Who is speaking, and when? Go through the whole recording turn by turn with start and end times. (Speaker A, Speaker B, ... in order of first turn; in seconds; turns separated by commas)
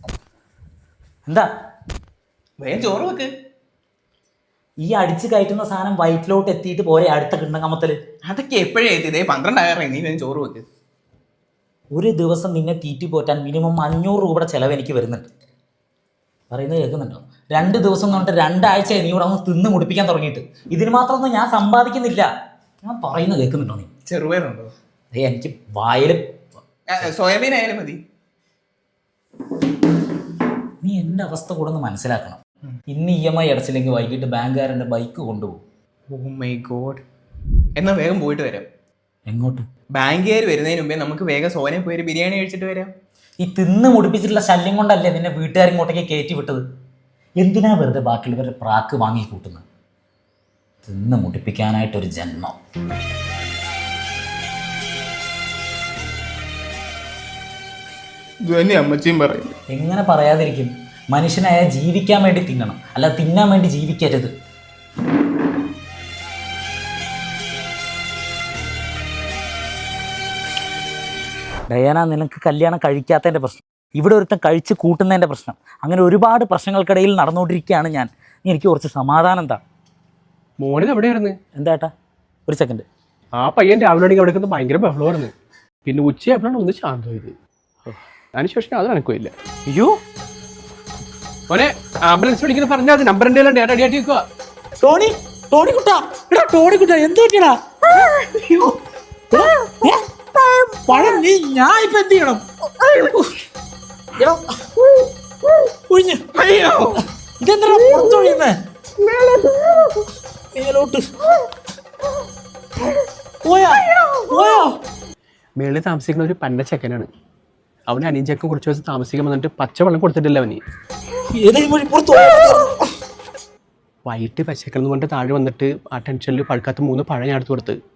Speaker A: 2.6-3.3, Speaker B: 4.8-8.0, Speaker A: 8.2-10.7, Speaker B: 11.9-15.3, Speaker B: 16.5-22.3, Speaker B: 22.8-23.9, Speaker A: 24.1-24.7, Speaker B: 25.1-26.6, Speaker A: 26.9-28.0, Speaker B: 30.8-35.6, Speaker A: 36.1-37.0, Speaker A: 37.8-38.7, Speaker B: 39.3-39.6, Speaker A: 39.9-42.9, Speaker B: 43.4-46.6, Speaker B: 47.4-49.6, Speaker B: 50.8-52.5, Speaker A: 58.4-59.5, Speaker B: 59.7-64.3, Speaker B: 71.7-79.6, Speaker C: 80.6-81.4, Speaker B: 81.5-81.9, Speaker B: 82.5-82.8, Speaker C: 83.4-85.3, Speaker C: 85.8-87.3, Speaker C: 88.3-89.3, Speaker B: 89.7-90.0, Speaker C: 91.5-94.2, Speaker B: 94.8-98.6, Speaker B: 99.3-103.3, Speaker B: 105.9-106.3, Speaker A: 106.4-106.9, Speaker B: 107.4-108.5, Speaker B: 110.5-111.0, Speaker B: 113.4-114.7, Speaker C: 115.6-117.1, Speaker C: 117.9-120.6, Speaker B: 121.3-122.8, Speaker C: 124.0-127.8